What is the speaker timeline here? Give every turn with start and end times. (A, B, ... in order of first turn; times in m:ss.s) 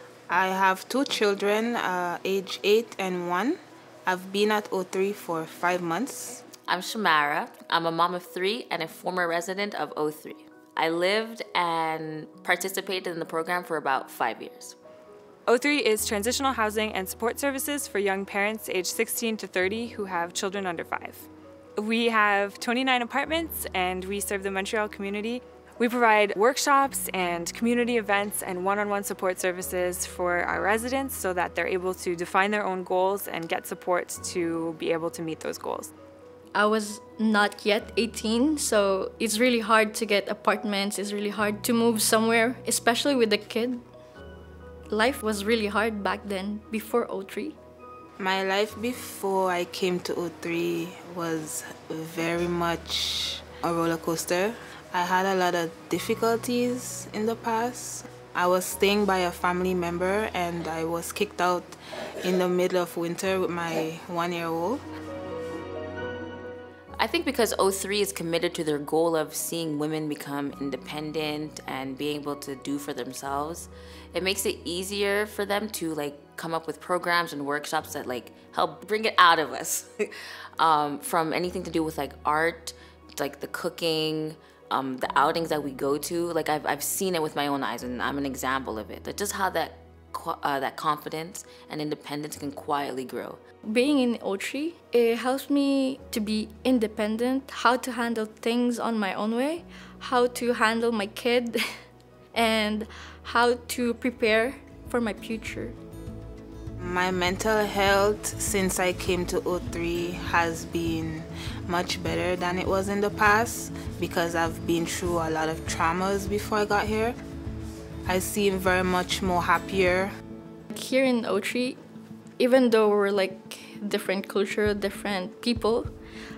0:00.3-0:06.4 A
0:06.7-0:14.8 B
0:15.5-0:35.9 C
0:36.6-0:43.8 D
0:44.9-0:47.6 D
0:48.2-1:04.8 A
1:07.0-1:33.4 B
1:33.7-1:41.6 D
1:42.3-1:45.8 D
1:46.8-1:57.2 A
1:58.1-2:00.1 A
2:00.7-2:01.8 D
2:02.4-2:05.9 D